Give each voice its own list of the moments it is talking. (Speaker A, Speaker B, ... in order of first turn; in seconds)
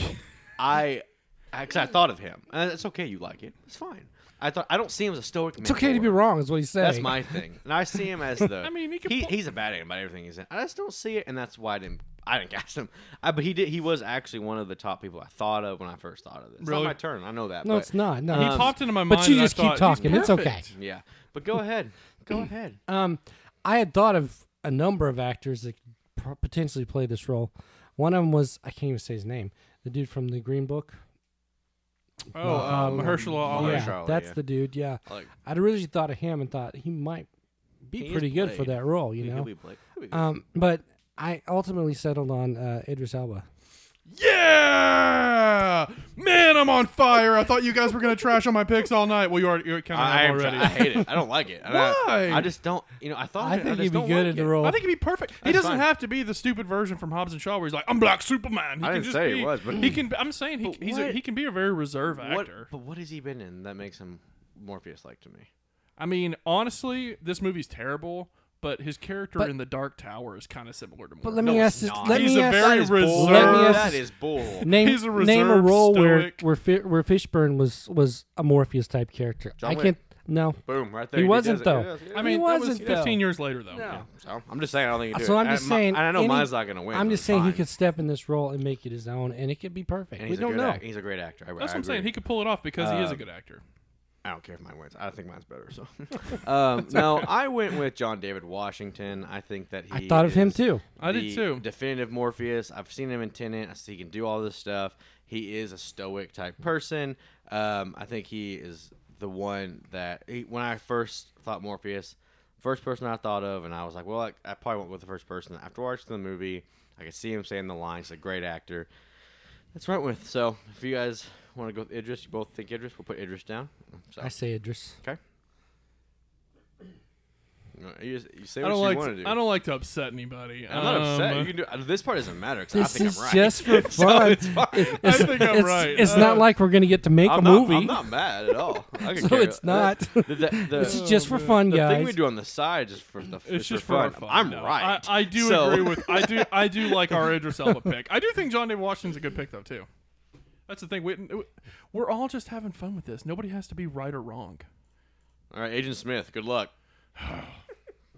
Speaker A: 0.6-6.2, 6.8-18.8, 20.0-22.8, 32.5-34.4, 38.0-40.2, 49.9-54.7, 55.4-55.9, 58.8-60.0, 60.6-61.2, 62.2-65.5, 71.4-74.7, 79.6-80.0, 80.7-83.1, 83.9-87.7, 90.2-92.1, 92.8-93.2, 94.2-118.9, 119.7-124.3, 127.8-129.4, 130.7-136.4, 137.2-146.5, 155.5-156.7
Speaker B: 5.6-7.2, 17.6-20.6, 22.9-31.0, 32.4-37.3, 37.8-39.5, 40.1-43.5, 53.4-54.8, 71.2-74.0, 74.6-80.6, 81.1-84.1, 85.1-90.8, 99.9-100.8, 124.2-125.0, 132.7-138.0, 139.1-142.2
Speaker C: 8.6-9.4, 16.6-17.0, 18.3-20.7, 32.3-33.9, 44.1-51.1, 51.6-52.5, 54.6-62.7, 66.0-76.5, 82.1-83.9, 91.6-93.6, 96.9-97.3, 101.0-101.7, 128.6-131.5, 134.9-136.5, 140.8-141.6, 143.4-149.9, 150.7-154.7, 157.2-157.6